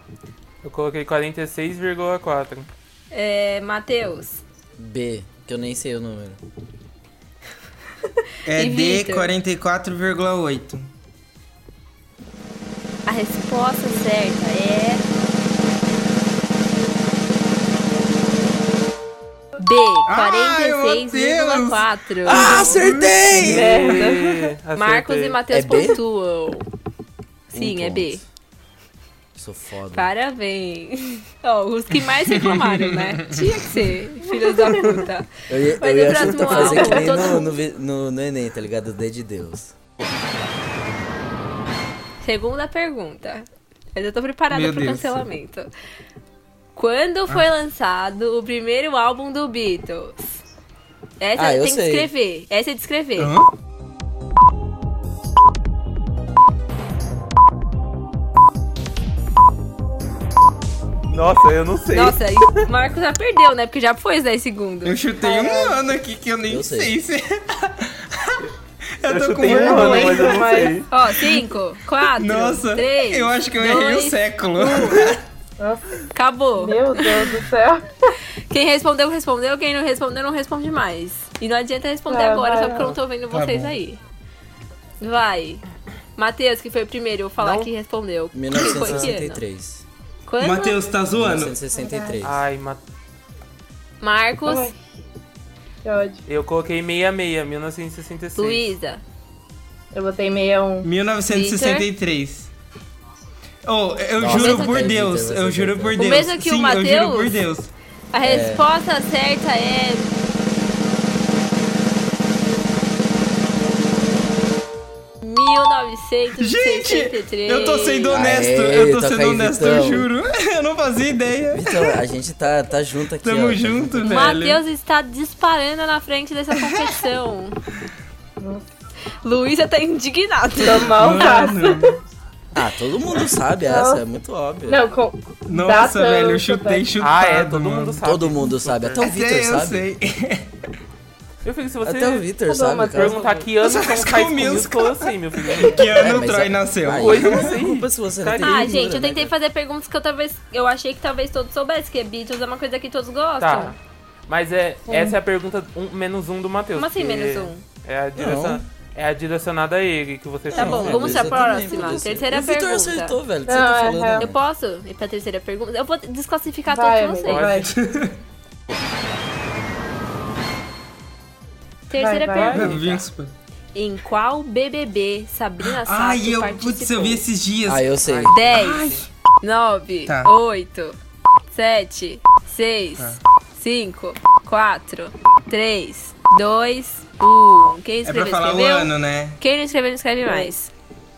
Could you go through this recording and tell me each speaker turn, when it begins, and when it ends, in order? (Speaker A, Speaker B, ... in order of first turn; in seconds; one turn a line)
Speaker A: 0.6-2.7
Speaker B: 3.1-4.4
Speaker C: 4.8-6.4
Speaker D: 8.5-10.9
Speaker B: 8.5-9.3
Speaker B: 13.1-15.1
Speaker B: 19.6-22.8
Speaker D: 20.1-23.6
Speaker C: 22.2-23.8
Speaker E: 23.3-24.5
Speaker A: 23.4-25.4
Speaker B: 24.7-26.7
Speaker C: 25.5-26.0
Speaker B: 27.5-28.2
Speaker C: 27.5-28.2
Speaker C: 29.4-30.1
Speaker B: 29.9-37.5
Speaker D: 32.1-33.8
Speaker E: 34.4-34.9
Speaker C: 35.5-39.7
Speaker E: 36.4-37.5
Speaker B: 42.2-45.7
Speaker D: 44.5-45.2
Speaker B: 46.8-50.4
Speaker B: 51.2-53.3
Speaker C: 51.4-52.1
Speaker D: 53.2-53.5
Speaker A: 61.1-62.6
Speaker B: 61.9-65.0
Speaker D: 64.8-68.5
Speaker E: 65.2-65.9
Speaker C: 66.5-66.9
Speaker D: 69.0-70.5
Speaker A: 69.0-70.9
Speaker E: 69.4-70.8
Speaker B: 70.9-75.0
Speaker D: 72.1-75.2
Speaker E: 74.8-76.0
Speaker B: 76.1-77.2
Speaker E: 76.6-78.1
Speaker B: 78.5-84.0
Speaker E: 82.1-83.0
Speaker D: 83.3-83.7
Speaker B: 85.0-85.6
Speaker B: 86.2-89.4
Speaker A: 87.4-87.7
Speaker C: 88.3-89.9
Speaker A: 88.6-89.1
Speaker B: 90.3-90.8
Speaker D: 90.4-91.6
Speaker C: 91.1-92.5
Speaker E: 91.7-92.2
Speaker A: 92.2-92.8
Speaker B: 94.0-94.7
Speaker E: 94.5-94.7
Speaker E: 95.8-96.2
Speaker A: 96.3-98.7
Speaker B: 98.4-99.0
Speaker E: 99.9-100.9
Speaker D: 100.8-102.5
Speaker B: 101.3-101.9
Speaker D: 103.7-107.7
Speaker C: 104.2-106.0
Speaker B: 104.3-105.0
Speaker B: 106.0-107.4
Speaker B: 108.1-110.1
Speaker C: 108.2-108.6
Speaker B: 115.2-118.2
Speaker D: 116.4-122.0
Speaker C: 118.1-120.1
Speaker C: 121.5-124.3
Speaker D: 123.2-124.6
Speaker B: 124.0-127.6
Speaker D: 126.5-127.0
Speaker E: 128.4-128.7
Speaker B: 129.2-131.3
Speaker E: 130.6-131.9
Speaker D: 130.9-132.0
Speaker C: 132.5-134.8
Speaker E: 133.7-134.0
Speaker E: 134.7-136.9
Speaker D: 135.5-138.0
Speaker A: 137.0-139.1
Speaker C: 138.0-139.9
Speaker D: 139.0-140.5
Speaker A: 141.4-142.3
Speaker C: 141.8-143.4
Speaker E: 142.5-143.4
Speaker A: 142.9-145.9
Speaker D: 143.6-147.5
Speaker C: 145.9-149.3
Speaker A: 146.9-148.8
Speaker B: 148.4-153.8
Speaker A: 153.4-161.5
Speaker E: 154.9-155.2
Speaker B: 156.8-157.6
Speaker C: 158.2-158.6
Speaker C: 160.5-164.4
Speaker B: 160.5-163.2
Speaker E: 163.5-164.3
Speaker B: 164.2-167.5
Speaker E: 166.7-167.7
Speaker A: 167.2-167.7
Speaker D: 167.4-168.2
Speaker B: 171.9-173.0
Speaker E: 172.0-172.7
Speaker A: 172.3-173.0
Speaker D: 172.5-173.3
Speaker B: 173.8-177.2
Speaker D: 175.6-179.1
Speaker C: 177.7-178.3
Speaker A: 178.0-179.0
Speaker B: 178.3-181.0
Speaker D: 180.1-180.3
Speaker B: 181.5-190.7
Speaker D: 188.1-189.4
Speaker E: 190.2-190.5